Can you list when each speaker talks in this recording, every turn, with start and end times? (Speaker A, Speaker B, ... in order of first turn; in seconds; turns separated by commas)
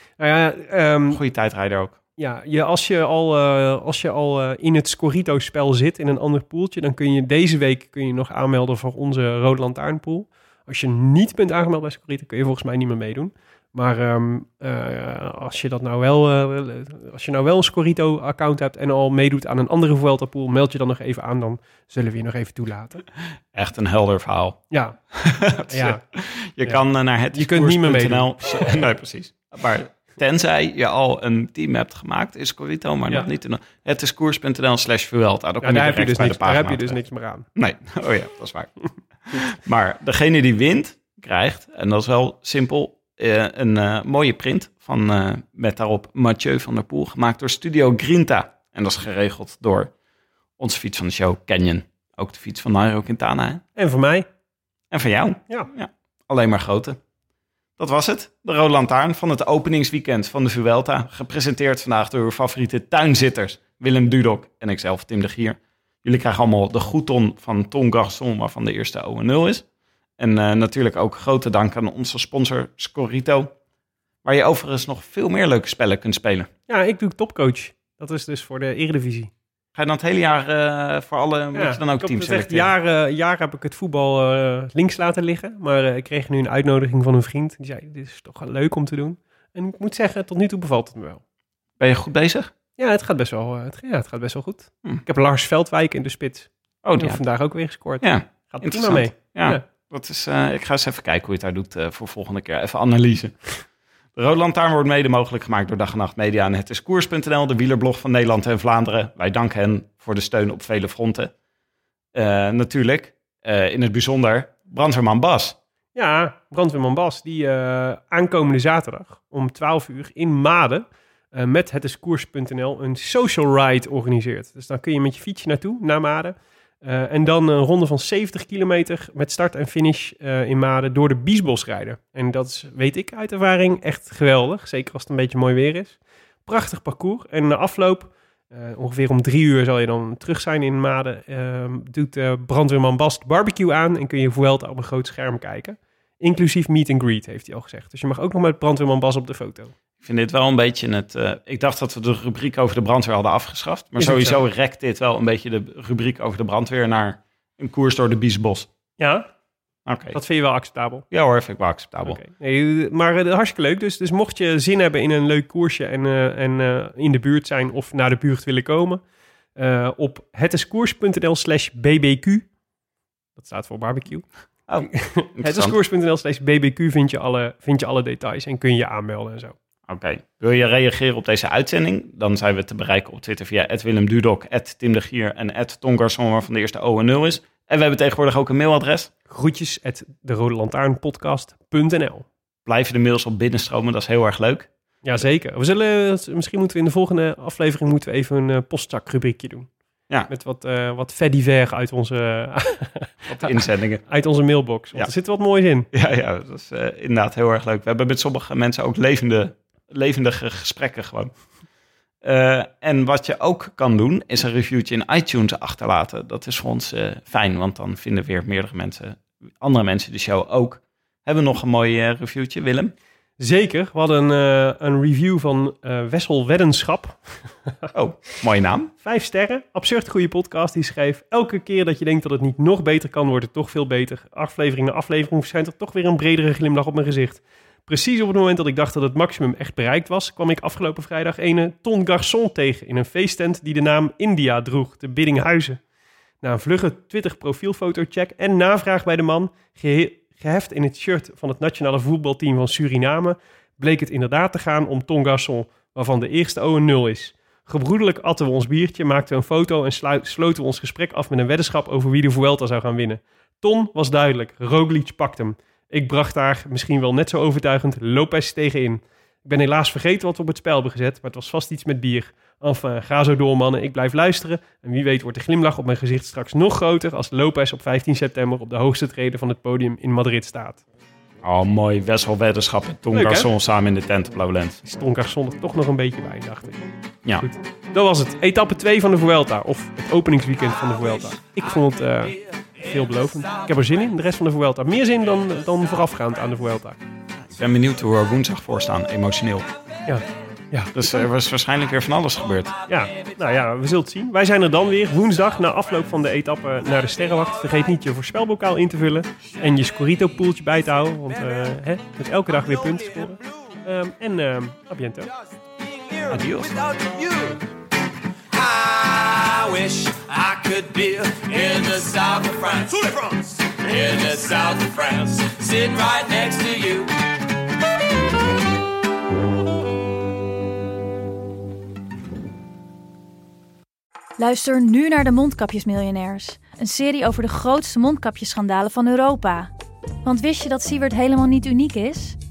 Speaker A: 0.2-1.2, Speaker B: 1.1-1.9, Speaker A: 2.2-23.0, Speaker B: 23.5-24.6, Speaker A: 24.7-25.0, Speaker B: 25.1-37.0, Speaker A: 25.7-26.0, Speaker A: 27.3-28.7, Speaker A: 35.6-37.5, Speaker B: 37.5-38.8, Speaker B: 39.3-49.9, Speaker B: 50.6-53.6, Speaker A: 53.8-54.3, Speaker B: 54.9-57.0, Speaker B: 57.8-69.6, Speaker B: 70.2-73.5, Speaker B: 74.2-76.5, Speaker A: 76.7-79.3, Speaker B: 79.8-82.7, Speaker A: 81.5-91.2, Speaker B: 91.8-92.5, Speaker A: 92.8-99.6, Speaker B: 96.8-97.2, Speaker B: 98.0-103.6, Speaker B: 104.2-111.3, Speaker B: 112.1-115.5, Speaker A: 115.9-149.7, Speaker B: 150.0-158.7, Speaker A: 154.0-154.4, Speaker A: 159.0-159.3, Speaker B: 159.9-160.2, Speaker A: 160.1-161.1, Speaker B: 161.1-162.2, Speaker A: 162.1-169.0, Speaker A: 169.6-172.4, Speaker A: 173.4-174.2, Speaker B: 174.7-175.7, Speaker A: 174.8-179.6, Speaker B: 179.9-189.1, Speaker A: 189.3-192.3, Speaker B: 192.7-194.7, Speaker A: 195.0-199.7, Speaker A: 200.3-205.9, Speaker B: 203.3-204.0, Speaker B: 205.9-211.3, Speaker B: 212.2-222.9, Speaker A: 223.4-227.8, Speaker B: 227.9-228.9, Speaker A: 229.0-245.8, Speaker A: 246.4-280.8, Speaker B: 281.4-284.8, Speaker A: 283.1-283.5, Speaker A: 284.8-286.9, Speaker A: 287.4-297.0, Speaker B: 297.4-299.7, Speaker A: 300.1-301.3, Speaker B: 300.9-302.7, Speaker A: 302.9-315.3, Speaker C: 316.1-317.6, Speaker B: 316.3-316.7, Speaker C: 318.5-327.1, Speaker D: 334.4-339.7, Speaker D: 340.2-342.4